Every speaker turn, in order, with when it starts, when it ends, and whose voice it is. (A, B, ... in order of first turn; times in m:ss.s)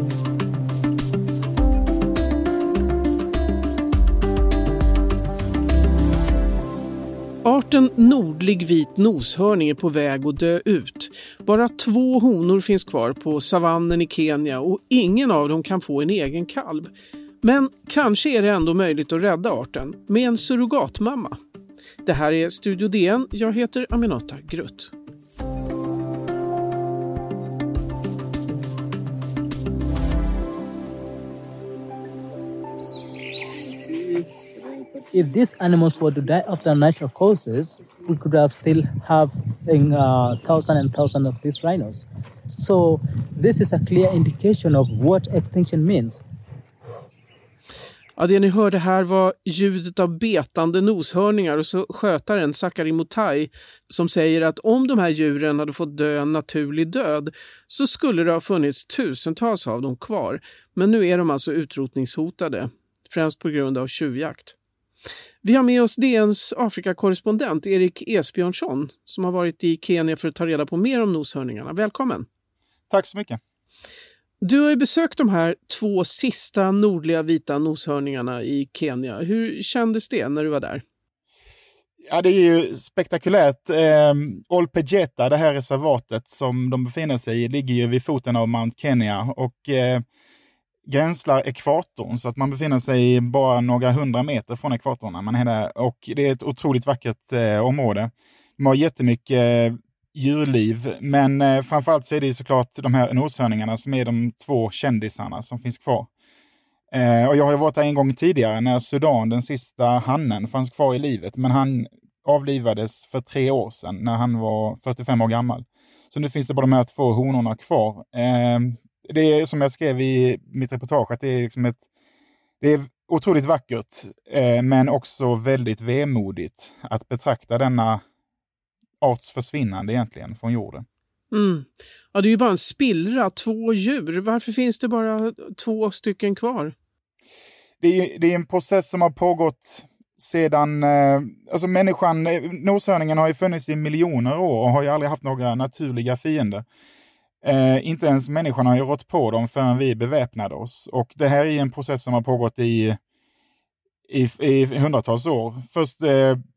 0:07.4-0:21.4 A
0:22.0-0:24.9 A
0:35.1-0:42.0 B
0:42.5-0:46.2 B
0:48.2-1:04.6 A
1:05.4-1:12.3 A
1:12.9-1:13.4 C
1:14.4-1:20.8 A
1:22.1-1:30.0 C
1:30.9-1:46.1 C
1:46.9-2:01.8 C
2:02.6-2:08.0 C
2:09.0-2:10.8 C
2:11.3-2:16.7 A
2:17.8-2:26.6 C
2:27.4-2:33.0 C
2:34.1-2:36.4 C